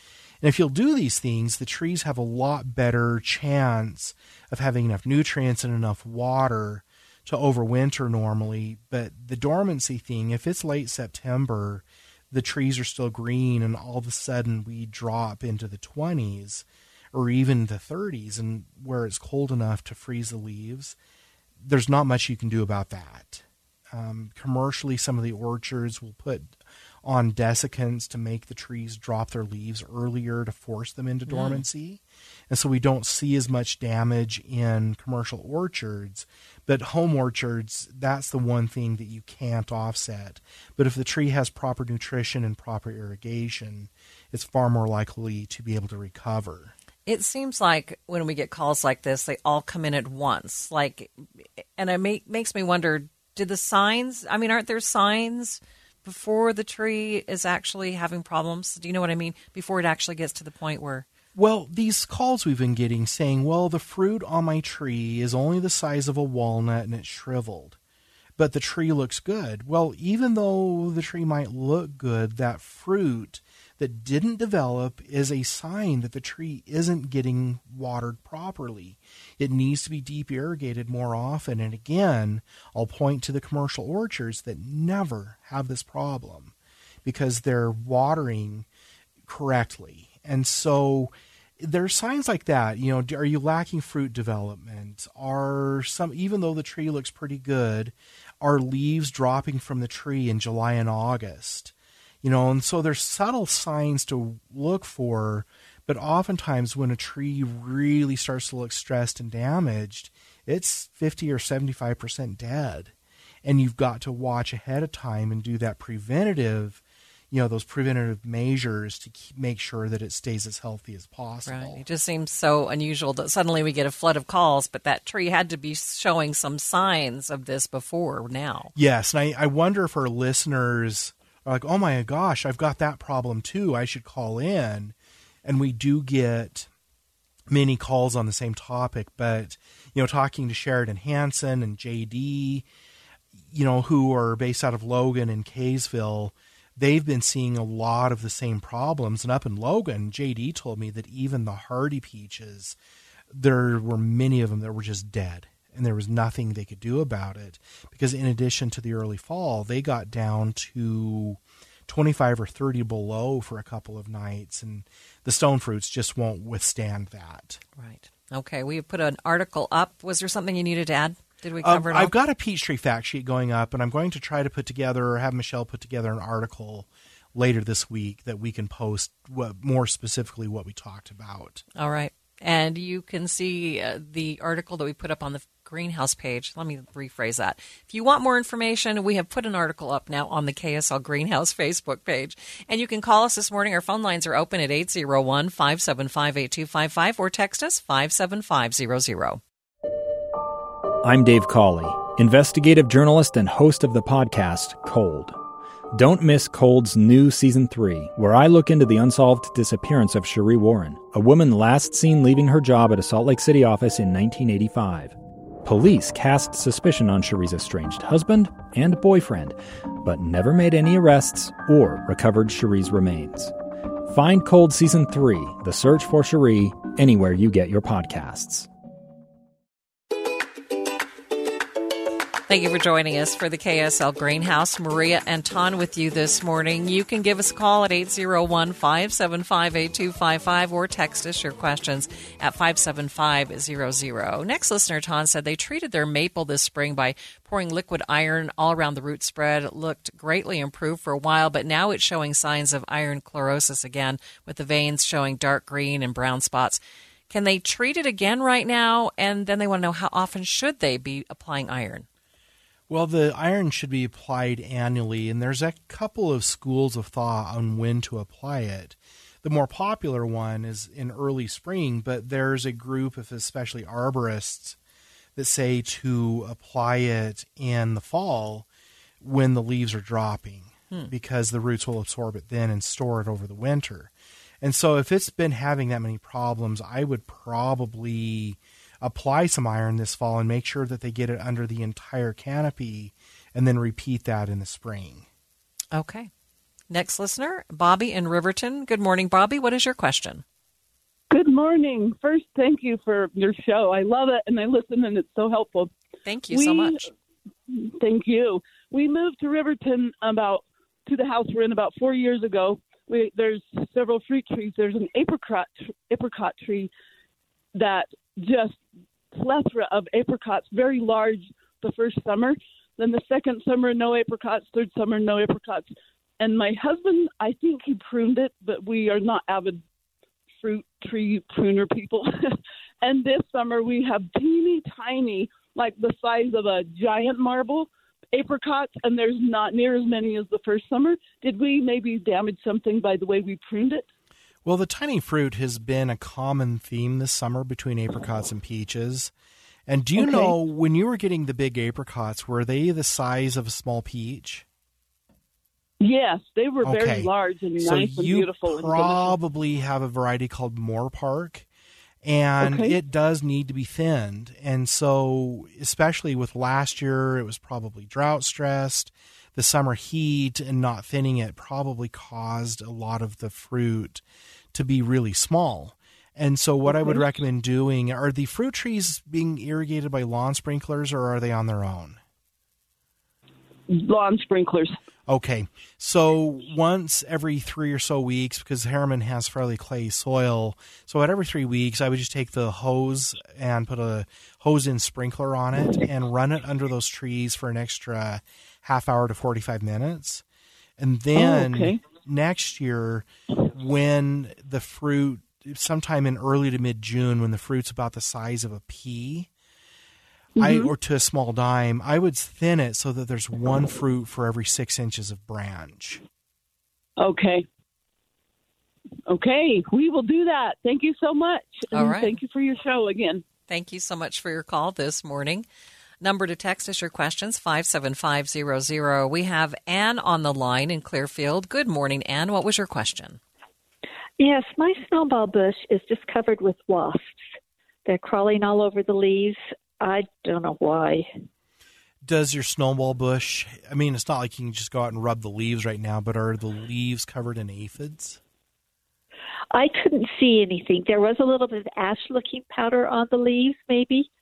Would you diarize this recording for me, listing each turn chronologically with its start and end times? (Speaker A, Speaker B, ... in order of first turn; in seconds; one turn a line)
Speaker A: 0.4-20.9
Speaker A: 21.6-46.7
Speaker B: 31.3-31.6
Speaker B: 47.0-61.0
Speaker A: 61.3-67.8
Speaker A: 68.4-86.5
Speaker A: 87.0-88.7
Speaker A: 89.3-112.9
Speaker A: 113.4-121.8
Speaker B: 121.4-128.7
Speaker A: 128.7-136.7
Speaker A: 137.5-142.6
Speaker A: 143.5-152.8
Speaker A: 153.3-167.6
Speaker B: 167.8-172.1
Speaker A: 171.6-181.6
Speaker B: 181.8-199.4
Speaker C: 201.0-205.4
Speaker C: 205.9-223.5
Speaker C: 224.1-228.7
Speaker B: 232.5-262.1
Speaker A: 262.9-274.8
Speaker A: 275.4-278.7
Speaker A: 279.2-295.2
Speaker B: 295.9-296.3
Speaker B: 296.9-300.4
Speaker D: 301.3-305.9
Speaker B: 306.2-307.1
Speaker D: 306.5-307.0
Speaker D: 307.7-316.9
Speaker D: 317.7-318.8
Speaker D: 319.3-329.8
Speaker D: 330.6-344.0
Speaker A: 344.6-349.3
Speaker A: 349.9-354.6
Speaker D: 350.2-350.5
Speaker D: 356.0-359.4
Speaker A: 356.8-361.7
Speaker A: 362.2-382.2
Speaker D: 362.6-363.0
Speaker D: 376.9-377.2
Speaker D: 383.9-384.9
Speaker A: 385.3-400.4
Speaker A: 401.0-409.5
Speaker D: 401.3-402.0
Speaker D: 410.6-410.9
Speaker A: 410.6-416.2
Speaker D: 417.2-417.6
Speaker D: 419.3-423.4
Speaker B: 421.9-422.4
Speaker B: 423.7-425.6
Speaker B: 426.2-433.4
Speaker E: 434.4-437.4
Speaker E: 438.1-441.2
Speaker A: 442.2-448.4
Speaker E: 449.7-454.3